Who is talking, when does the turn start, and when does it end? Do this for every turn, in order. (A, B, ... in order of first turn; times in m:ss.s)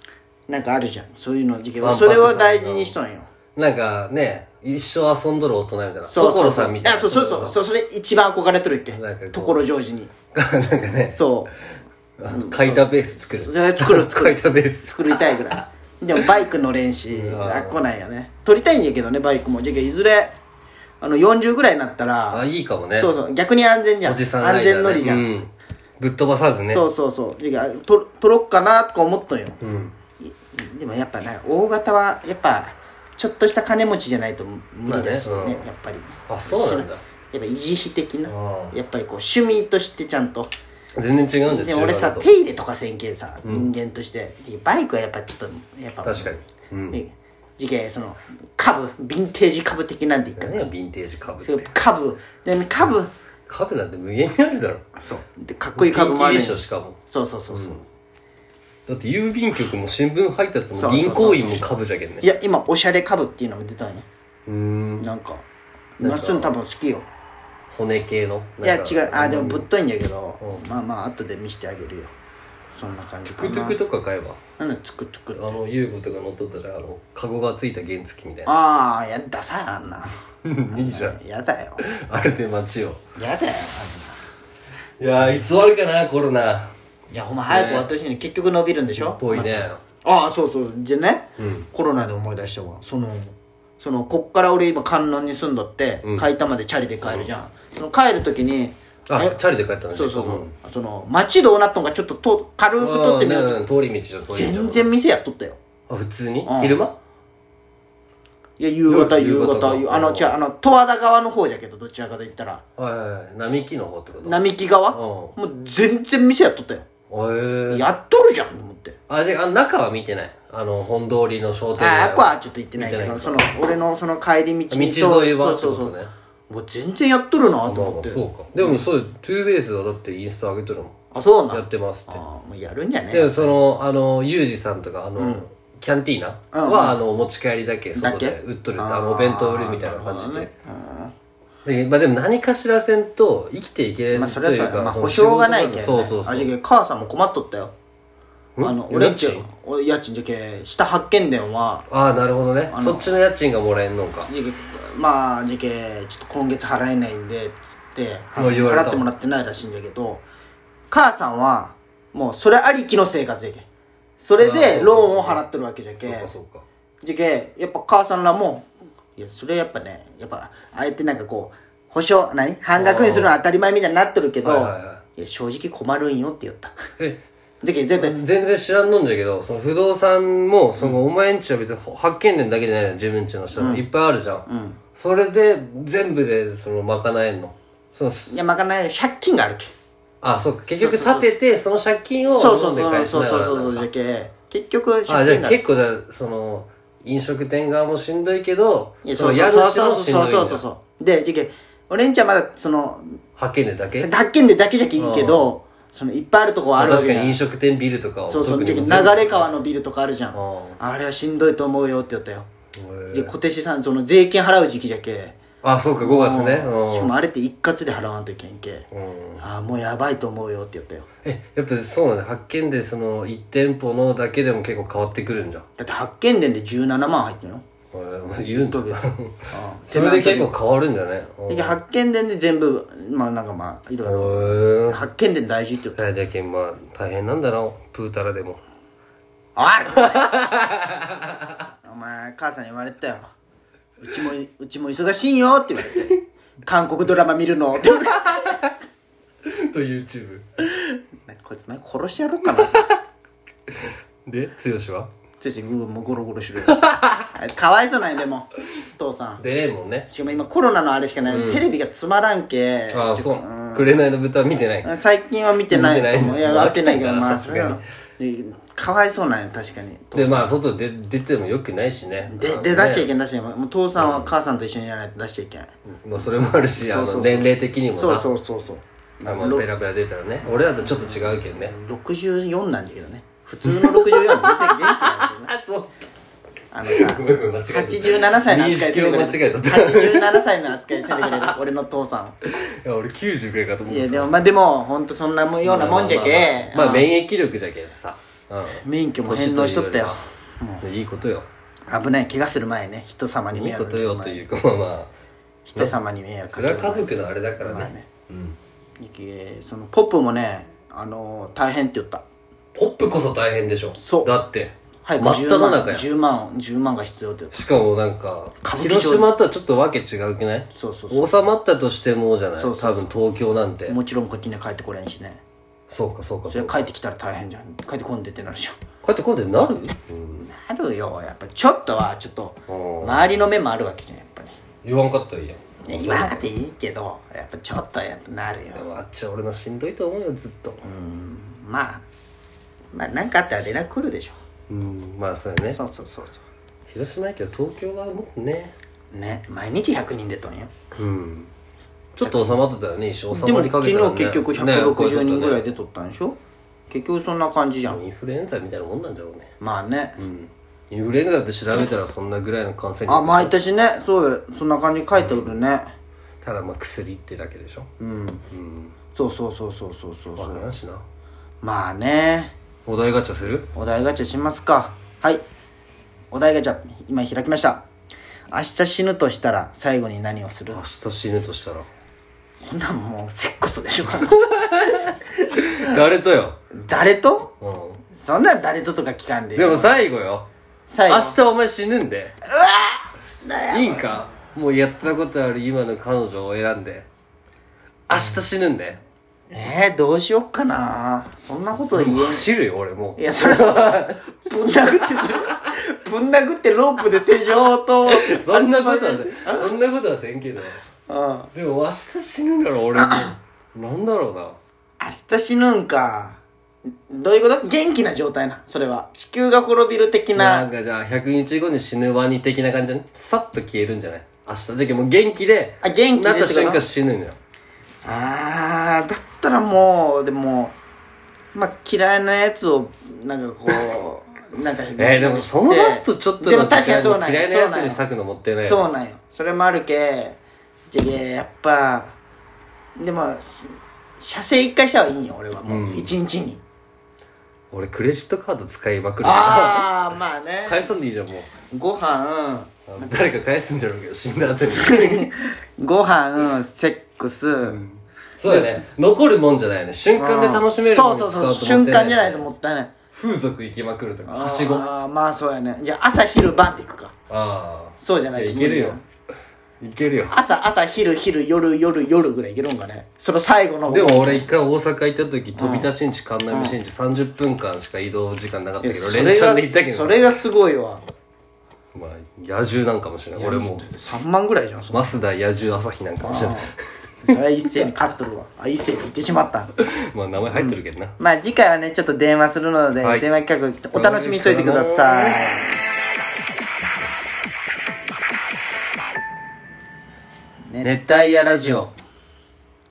0:00.5-0:03.3 A
0:01.8-0:03.0 B
0:03.6-0:07.6 B
0:06.1-0:10.1 A
0:08.9-0:09.6 B
0:10.3-0:11.2 B
0:11.1-0:11.5 A
0:12.2-0:15.5 B
0:12.3-0:20.4 A
0:17.1-0:17.8 B
0:21.0-0:22.4 A
0:22.3-0:23.1 B
0:23.0-0:25.3 A
0:24.0-0:26.8 B
0:26.7-0:29.6 A
0:29.6-0:30.0 B
0:30.2-0:40.5 A
0:34.9-0:35.7 B
0:36.3-0:37.0 B
0:38.3-0:38.8 B
0:41.0-0:42.3 B
0:41.4-0:46.4 A
0:43.4-0:43.7 B
0:46.0-0:47.0 B
0:46.9-0:50.6 A
0:50.4-0:51.7 B
0:51.4-0:53.1 A
0:53.5-0:54.8 B
0:55.0-0:57.8 A
0:55.8-0:57.0 B
0:57.5-0:57.8 B
0:58.9-1:02.3 B
1:00.8-1:04.1 A
1:04.5-1:05.1 B
1:05.0-1:05.4 A
1:06.0-1:07.1 A
1:06.0-1:06.5 B
1:07.7-1:09.7 B
1:08.6-1:12.1 A
1:12.8-1:13.8 A
1:13.2-1:14.4 B
1:14.6-1:15.4 A
1:15.4-1:18.5 B
1:18.5-1:20.1 A
1:20.4-1:21.2 B
1:20.7-1:21.8 A
1:21.8-1:23.0 B
1:23.2-1:24.2 A
1:25.0-1:26.7 B
1:27.1-1:39.4 A
1:27.5-1:27.9 B
1:29.0-1:29.8 B
1:31.4-1:31.7 B
1:37.0-1:37.3 B
1:39.1-1:40.5 B
1:39.9-1:43.6 A
1:42.8-1:44.9 B
1:44.3-1:45.6 A
1:45.9-1:47.0 B
1:46.5-1:46.8 A
1:48.6-1:52.6 A
1:48.9-1:50.3 B
1:52.8-1:55.4 B
1:54.2-1:56.9 A
1:57.1-1:57.9 B
1:57.7-1:59.0 A
1:59.1-2:03.4 B
2:01.8-2:05.9 A
2:04.7-2:06.1 B
2:06.5-2:08.8 A
2:07.7-2:11.0 B
2:11.1-2:13.6 A
2:11.5-2:12.2 B
2:13.1-2:20.5 B
2:15.2-2:15.4 A
2:16.5-2:17.0 A
2:18.0-2:21.1 A
2:21.6-2:26.5 B
2:24.1-2:27.7 A
2:28.6-2:29.5 B
2:28.6-2:31.9 A
2:31.9-2:34.3 B
2:32.7-2:33.1 A
2:34.3-2:40.2 A
2:38.4-2:39.0 B
2:40.9-2:43.7 A
2:44.2-2:46.3 A
2:44.4-2:45.4 B
2:46.0-2:46.6 B
2:47.0-2:56.8 A
2:52.8-2:53.4 B
2:54.4-2:55.0 B
2:57.6-2:58.2 A
2:58.0-3:08.4 B
3:03.6-3:03.9 A
3:04.5-3:04.8 A
3:08.3-3:09.7 A
3:10.2-3:13.9 B
3:10.8-3:11.3 A
3:12.3-3:15.6 A
3:15.1-3:20.6 B
3:19.0-3:23.2 A
3:23.4-3:24.1 B
3:24.0-3:27.4 A
3:25.0-3:25.5 B
3:26.8-3:29.6 B
3:28.3-3:32.5 A
3:30.3-3:30.8 B
3:32.8-3:33.3 B
3:33.1-3:35.4 A
3:35.6-3:37.1 B
3:36.0-3:38.9 A
3:38.9-3:39.4 B
3:39.4-3:41.1 A
3:41.2-3:45.6 B
3:45.8-3:47.6 A
3:47.9-3:51.8 B
3:48.5-3:50.6 A
3:51.5-3:56.0 A
3:54.0-3:55.0 B
3:56.0-3:58.6 B
3:59.6-4:00.3 A
4:00.0-4:01.6 B
4:01.8-4:03.3 A
4:04.0-4:08.6 A
4:08.0-4:08.7 B
4:09.4-4:10.5 B
4:10.8-4:13.0 A
4:12.6-4:12.9 B
4:14.3-4:15.1 B
4:15.4-4:16.8 A
4:16.7-4:17.3 B
4:17.3-4:19.4 A
4:19.4-4:20.1 B
4:20.1-4:24.0 A
4:21.3-4:21.7 B
4:22.9-4:24.9 B
4:24.8-4:30.5 A
4:25.7-4:27.8 B
4:30.2-4:33.1 B
4:32.3-4:35.7 A
4:34.0-4:34.3 B
4:35.9-4:38.3 B
4:36.8-4:39.7 A
4:39.2-4:41.7 B
4:40.8-4:45.5 A
4:43.6-4:45.9 B
4:46.7-4:52.4 A
4:46.9-4:51.6 B
4:52.4-4:54.4 B
4:53.9-4:57.1 A
4:55.6-5:00.2 B
4:58.7-5:00.8 A
5:00.8-5:01.5 B
5:01.9-5:04.5 A
5:03.5-5:05.1 B
5:05.7-5:08.1 A
5:06.5-5:08.6 B
5:09.0-5:12.2 A
5:12.8-5:16.1 B
5:14.0-5:14.4 A
5:15.0-5:17.7 A
5:17.5-5:24.0 B
5:18.6-5:19.3 A
5:20.7-5:21.4 A
5:22.6-5:23.1 A
5:23.9-5:25.4 A
5:25.9-5:26.9 B
5:26.5-5:28.8 A
5:29.0-5:30.5 B
5:30.4-5:34.6 A
5:32.7-5:33.2 B
5:34.8-5:36.4 B
5:35.8-5:38.8 A
5:38.7-5:40.8 B
5:40.8-5:42.0 A
5:42.9-5:44.4 A
5:44.7-5:45.8 B
5:45.7-5:46.4 A
5:46.9-5:48.8 B
5:49.1-5:50.7 A
5:51.0-5:51.5 B
5:52.2-5:55.6 B
5:52.2-5:52.5 A
5:53.3-5:56.4 A
5:56.9-5:58.0 A
5:57.9-5:59.5 B
5:59.6-6:00.2 A
6:00.2-6:03.5 B
6:03.1-6:05.9 A
6:05.2-6:05.6 B
6:06.4-6:07.9 B
6:08.0-6:08.4 A
6:08.5-6:09.0 B
6:09.1-6:10.7 A
6:10.4-6:11.0 B
6:11.6-6:12.5 A
6:12.9-6:13.7 B
6:13.7-6:15.4 A
6:16.3-6:17.8 A
6:18.5-6:20.8 A
6:20.7-6:21.9 B
6:22.6-6:26.0 A
6:24.2-6:26.6 B
6:26.7-6:27.5 A
6:27.6-6:28.0 B
6:28.2-6:30.0 A
6:29.6-6:30.5 B
6:30.9-6:31.4 A
6:31.1-6:32.4 B
6:32.5-6:34.2 A
6:33.7-6:37.1 B
6:38.1-6:39.0 B
6:39.5-6:42.5 A
6:41.9-6:44.2 B
6:43.2-6:49.7 A
6:44.9-6:45.4 B
6:48.1-6:50.8 B
6:51.1-6:51.5 A
6:51.5-6:54.6 B
6:52.9-6:53.4 A
6:55.0-6:56.4 A
6:57.1-7:00.7 A
7:00.4-7:07.4 B
7:05.8-7:06.9 A
7:08.0-7:10.8 A
7:11.5-7:18.0 A
7:15.0-7:18.9 B
7:18.7-7:20.4 A
7:20.9-7:22.2 A
7:23.0-7:26.6 A
7:25.6-7:26.1 B
7:27.7-7:30.0 B
7:29.2-7:30.9 A
7:30.6-7:31.5 B
7:31.7-7:33.2 A
7:32.9-7:35.3 B
7:34.7-7:37.8 A
7:37.6-7:42.4 B
7:38.5-7:38.8 A
7:40.2-7:42.9 A
7:43.1-7:44.9 B
7:44.3-7:47.1 A
7:47.3-7:49.0 B
7:48.0-7:49.0 A
7:49.8-7:50.4 B
7:50.3-7:54.5 A
7:53.9-8:00.2 B
7:55.6-7:55.9 A
7:56.5-7:56.8 A
7:58.8-8:01.0 A
8:01.9-8:03.9 B
8:03.3-8:05.1 A
8:04.9-8:06.7 B
8:06.2-8:06.7 A
8:07.2-8:09.7 A
8:09.8-8:11.2 B
8:10.5-8:15.7 A
8:13.0-8:13.3 B
8:13.9-8:15.5 B
8:20.7-8:21.9 A
8:20.8-8:21.9 B